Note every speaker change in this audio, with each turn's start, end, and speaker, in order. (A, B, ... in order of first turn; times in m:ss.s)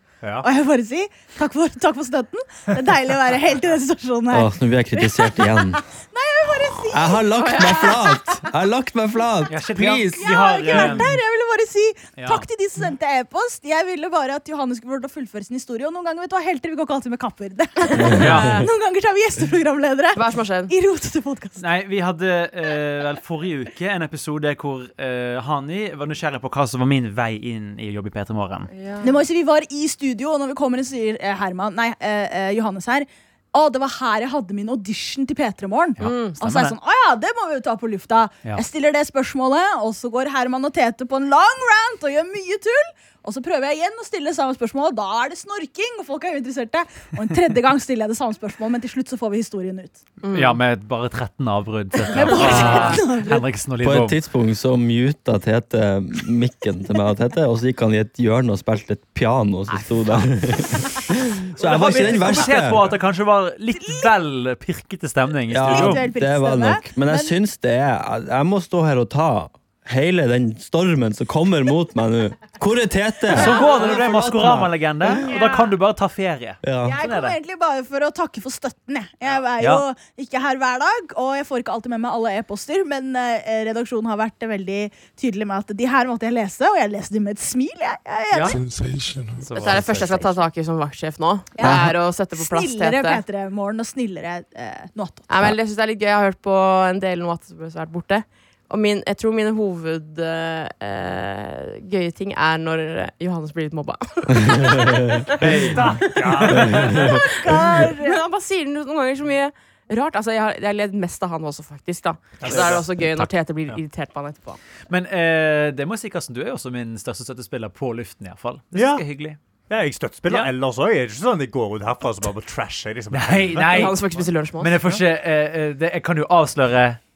0:00.2-0:00.5 A
0:00.4-0:07.3 B
0:04.3-0:05.8 C
0:06.9-0:11.0 C
0:07.4-0:08.2 D
0:09.5-0:11.1 E
0:10.1-0:21.6 B
0:12.2-0:12.5 E
0:18.0-0:18.7 D
0:18.2-0:18.6 E
0:20.2-0:20.7 D
0:21.6-0:28.7 E
0:28.7-0:29.2 D
0:29.0-0:50.0 B
0:36.0-0:36.8 E
0:36.0-0:36.4 D
0:50.2-0:50.6 D
0:50.3-0:54.2 E
0:52.1-0:53.4 B
0:52.2-0:53.0 D
0:53.8-1:02.9 C
1:01.6-1:06.0 E
1:01.8-1:02.5 B
1:03.8-1:04.1 B
1:05.5-1:14.7 C
1:05.6-1:07.4 B
1:13.3-1:17.4 E
1:13.4-1:13.9 B
1:15.2-1:15.6 B
1:16.6-1:17.0 C
1:16.8-1:28.6 B
1:19.6-1:19.8 E
1:28.3-1:28.6 E
1:28.3-1:28.6 A
1:29.4-1:30.2 E
1:29.5-1:30.3 A
1:29.6-1:33.2 D
1:31.6-1:35.5 B
1:31.6-1:31.9 C
1:35.3-1:45.4 D
1:45.4-1:46.7 E
1:45.4-1:47.2 A
1:46.0-1:54.6 D
1:47.0-1:48.2 B
1:52.4-1:52.9 A
1:52.5-1:53.3 E
1:54.9-1:59.4 E
1:58.7-1:59.0 A
1:59.7-2:05.0 A
2:00.3-2:00.5 E
2:03.1-2:04.0 E
2:03.7-2:04.8 D
2:04.6-2:07.0 E